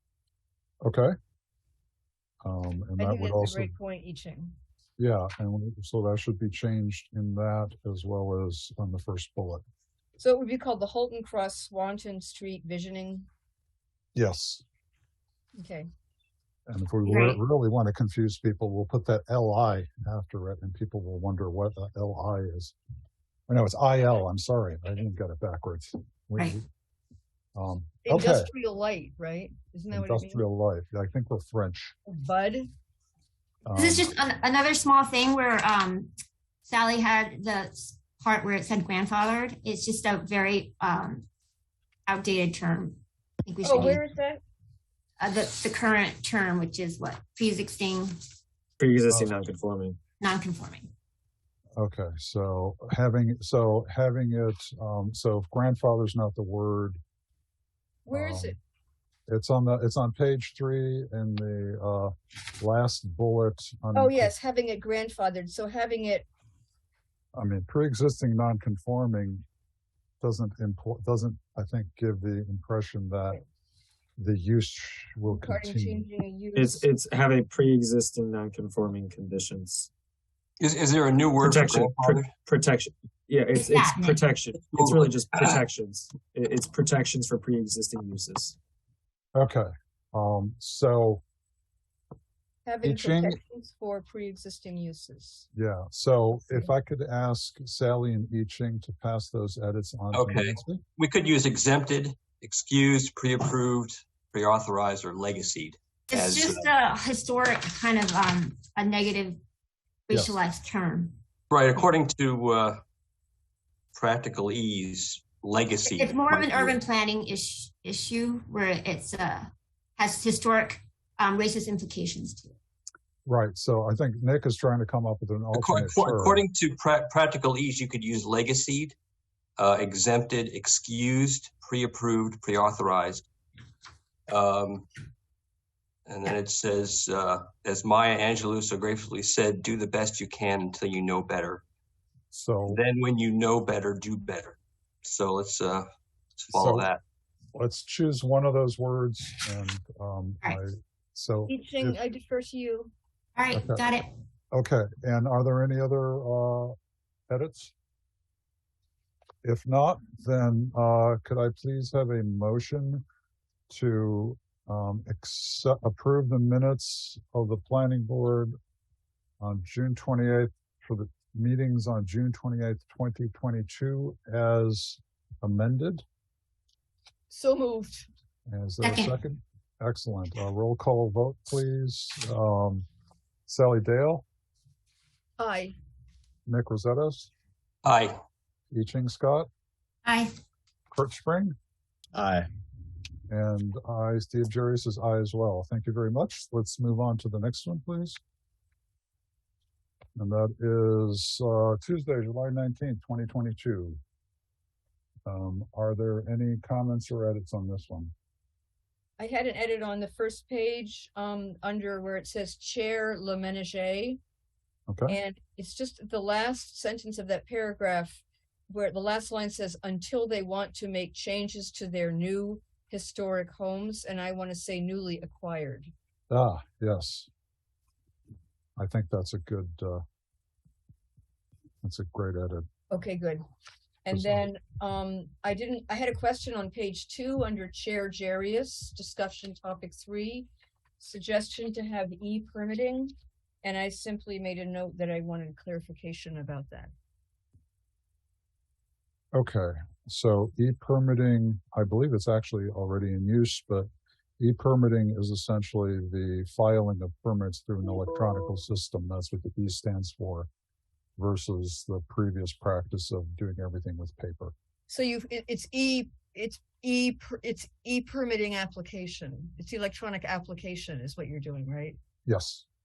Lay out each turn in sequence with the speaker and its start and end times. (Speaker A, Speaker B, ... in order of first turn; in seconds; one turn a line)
Speaker A: 0.8-1.1
Speaker A: 2.4-3.7
Speaker B: 3.0-4.5
Speaker A: 5.0-9.6
Speaker B: 10.2-13.3
Speaker A: 14.1-14.6
Speaker B: 15.6-15.8
Speaker A: 16.7-22.8
Speaker C: 17.1-17.4
Speaker A: 23.5-26.6
Speaker A: 27.5-28.5
Speaker B: 28.1-30.4
Speaker A: 29.9-31.9
Speaker B: 32.1-32.7
Speaker A: 33.6-34.1
Speaker C: 33.7-36.1
Speaker C: 36.6-41.3
Speaker C: 42.1-44.0
Speaker B: 43.6-44.4
Speaker C: 45.2-48.2
Speaker D: 48.8-50.0
Speaker C: 50.2-50.9
Speaker A: 51.8-57.0
Speaker B: 58.0-58.6
Speaker A: 58.1-58.5
Speaker A: 59.3-64.3
Speaker B: 63.9-66.2
Speaker A: 67.3-69.4
Speaker A: 70.2-73.4
Speaker A: 74.2-76.1
Speaker B: 75.3-76.8
Speaker D: 76.5-79.9
Speaker E: 80.6-82.3
Speaker D: 81.4-88.5
Speaker C: 83.5-84.2
Speaker E: 84.7-85.5
Speaker A: 89.3-91.2
Speaker B: 92.7-95.5
Speaker A: 92.8-93.4
Speaker A: 95.5-100.8
Speaker E: 100.1-106.7
Speaker C: 106.1-109.4
Speaker C: 110.1-111.2
Speaker A: 110.1-110.3
Speaker E: 111.5-112.8
Speaker E: 113.9-116.8
Speaker C: 115.8-122.6
Speaker A: 123.2-126.4
Speaker E: 125.5-128.9
Speaker E: 129.6-133.3
Speaker E: 134.3-134.9
Speaker E: 136.1-141.6
Speaker A: 142.3-142.8
Speaker E: 142.7-145.9
Speaker E: 146.4-147.0
Speaker A: 146.5-146.9
Speaker A: 147.5-152.0
Speaker B: 151.5-152.9
Speaker C: 153.3-154.1
Speaker A: 153.5-153.8
Speaker A: 154.5-156.7
Speaker A: 157.3-157.7
Speaker A: 159.4-163.0
Speaker A: 163.7-168.5
Speaker A: 169.4-176.0
Speaker B: 177.3-178.1
Speaker A: 178.5-182.8
Speaker C: 178.8-179.1
Speaker A: 183.5-184.2
Speaker B: 185.4-185.7
Speaker A: 186.4-187.3
Speaker E: 187.8-188.2
Speaker A: 188.7-189.5
Speaker C: 190.0-190.3
Speaker A: 190.9-191.5
Speaker A: 193.3-198.2
Speaker A: 200.2-204.0
Speaker A: 205.2-208.1
Speaker B: 209.2-214.2
Speaker A: 214.9-215.2
Speaker B: 215.1-225.9
Speaker A: 226.3-227.3
Speaker A: 228.8-230.0
Speaker A: 231.8-232.7
Speaker B: 232.9-233.4
Speaker B: 234.0-240.5
Speaker A: 234.1-234.5
Speaker B: 241.0-246.9
Speaker A: 249.3-253.9
Speaker A: 254.4-260.5
Speaker A: 261.2-264.5
Speaker B: 264.9-272.0
Speaker A: 272.2-272.6